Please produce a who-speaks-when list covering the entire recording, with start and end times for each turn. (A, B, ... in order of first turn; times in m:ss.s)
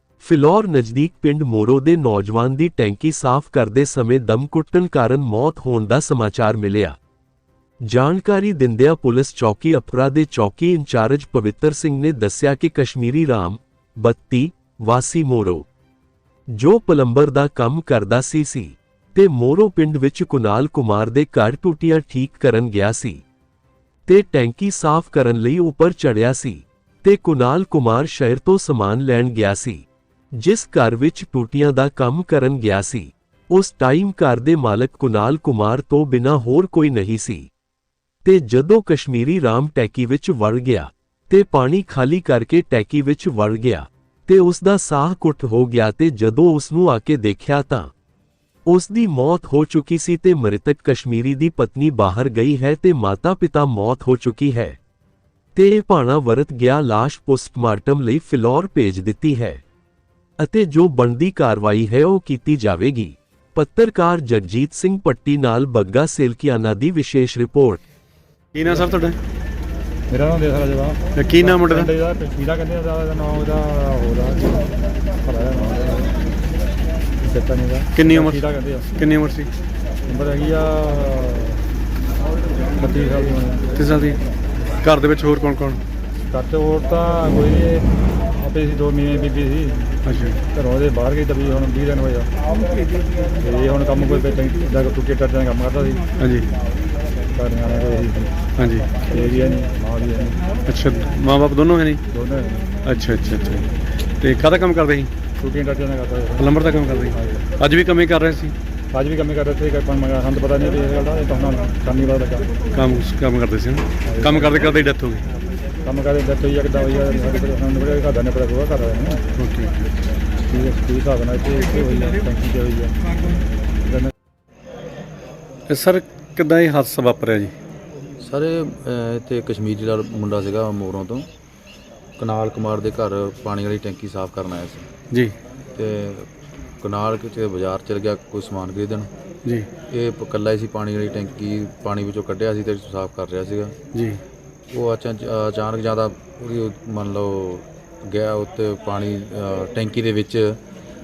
0:00.2-0:07.0 A
0:07.8-0:15.6 A
0:16.5-0:23.2 A
0:24.1-0:37.5 A
0:38.2-0:47.9 A
0:48.7-0:54.8 A
0:55.6-0:59.6 A
1:00.4-1:07.8 A
1:08.6-1:09.2 B
1:10.1-1:14.7 C
1:11.2-1:11.9 B
1:15.2-1:16.1 C
1:17.2-1:18.9 C
1:18.0-1:18.4 B
1:19.0-1:19.5 B
1:20.1-1:21.6 C
1:22.8-1:23.7 C
1:23.8-1:24.2 B
1:24.8-1:25.8 B
1:26.3-1:32.3 C
1:30.1-1:30.4 B
1:33.4-1:36.1 C
1:36.2-1:36.5 B
1:37.3-1:38.4 C
1:38.6-1:38.9 B
1:39.0-1:40.4 C
1:40.7-1:42.0 B
1:42.1-1:42.8 C
1:42.8-1:43.7 B
1:44.2-1:45.1 B
1:45.4-1:46.5 C
1:46.4-1:48.6 B
1:47.1-1:47.4 C
1:48.9-1:52.5 C
1:52.7-1:55.2 B
1:54.0-1:54.5 C
1:55.8-1:59.2 C
1:59.4-1:59.9 B
2:00.4-2:02.9 C
2:03.8-2:04.1 C
2:05.7-2:07.5 B
2:08.2-2:11.3 D
2:12.2-2:14.9 D
2:15.8-2:16.3 D
2:16.8-2:19.1 D
2:19.9-2:23.8 D
2:23.9-2:24.2 B
2:24.7-2:30.6 D